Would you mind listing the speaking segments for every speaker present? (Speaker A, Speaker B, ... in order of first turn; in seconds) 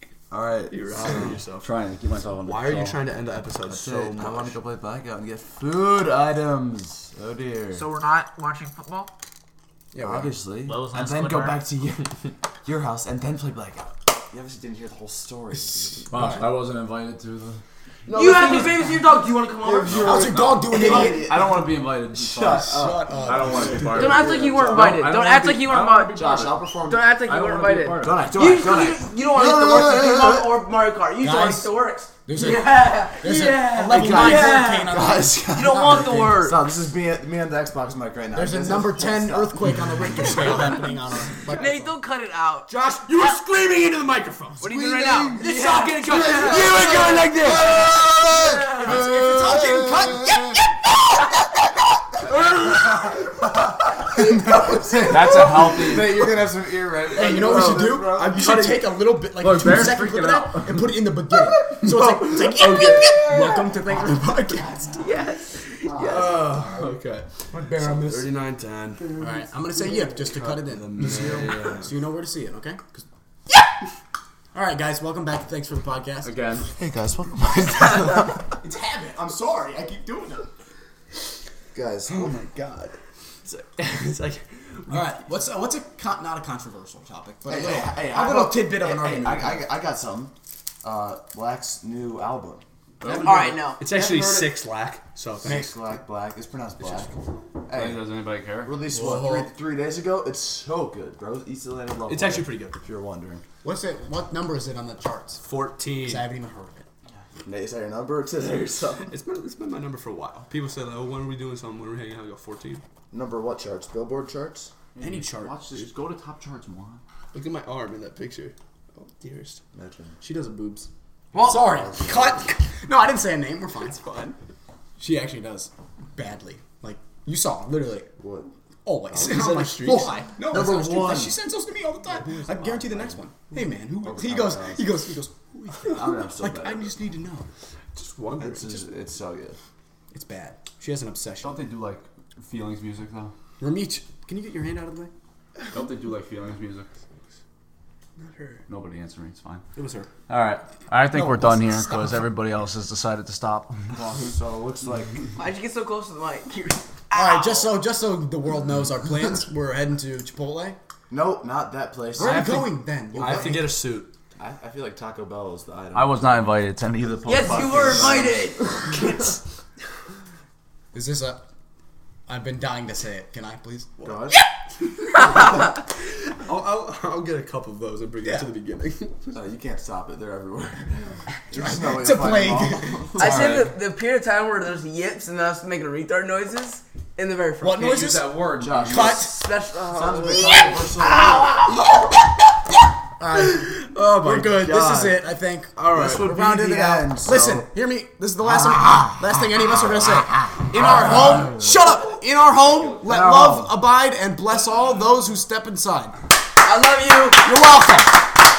Speaker A: 0.3-1.4, 3.7-7.9, 10.0-16.4, 18.1-18.9, 19.6-25.1, 26.2-27.2, 28.0-30.6, 33.8-40.8, 44.6-45.5, 46.2-50.6, 52.7-58.6, 65.9-66.4, 70.9-71.8, 76.7-78.5, 81.7-83.0, 87.5-92.6, 95.4-103.4, 107.4-109.1, 113.1-114.7, 119.7-120.2, 121.4-122.5, 128.2-128.5, 129.1-131.4, 132.5-133.2, 134.0-134.9, 135.8-136.9, 138.4-139.6, 153.9-155.3, 161.1-163.6, 164.4-166.4, 167.5-168.3, 174.0-174.4, 179.3-183.6, 188.6-189.2, 189.9-191.6, 194.2-195.2, 195.9-197.7, 198.4-201.8, 203.0-203.8
Speaker B: 0.7-1.7, 2.4-4.6, 42.7-44.7, 45.4-47.9, 57.5-59.0, 61.8-63.2, 66.0-69.2, 70.1-71.9, 83.5-85.1, 93.0-95.6, 96.8-97.1, 98.9-99.5, 102.1-102.8, 105.4-106.3, 109.1-112.8, 117.3-119.6, 129.2-130.2, 132.3-132.8, 138.0-138.9, 148.2-148.6, 162.2-164.1, 176.4-179.3, 195.8-196.2
Speaker C: 1.6-3.0, 16.1-17.6, 19.9-28.3, 55.0-56.3, 59.2-61.0, 71.1-71.7, 76.2-76.8, 93.0-93.6, 97.7-98.8, 115.0-117.0, 141.4-143.3, 145.7-146.9, 148.7-149.7, 150.3-154.0, 165.9-168.4, 183.2-183.7, 187.8-189.2, 202.6-203.0
Speaker D: 7.7-9.1, 18.1-21.2, 23.9-26.2, 26.8-35.0, 35.5-36.6, 41.5-42.7, 44.6-46.8, 48.5-49.0, 62.7-63.7, 65.0-66.3, 93.2-94.5, 121.3-121.7, 155.4-157.8, 167.3-169.4, 183.2-188.0, 189.2-191.7, 206.6-207.5
Speaker E: 9.9-10.4, 15.9-16.5, 19.9-21.3, 22.4-23.9, 31.2-36.4, 38.3-42.0, 46.7-50.8, 57.1-65.0, 66.0-66.7, 67.5-68.3, 69.2-73.0, 74.5-76.3, 78.5-80.5, 84.9-89.7, 95.4-95.7, 103.6-105.5, 106.0-106.8, 115.0-115.5, 120.2-124.4, 125.0-128.1, 128.8-137.5, 140.1-141.6, 143.6-145.1, 149.8-150.1, 151.1-152.3, 157.1-160.8, 162.2-163.7, 170.9-171.4, 172.3-174.1, 181.5-183.2, 187.6-189.5, 193.2-206.2, 207.4-208.2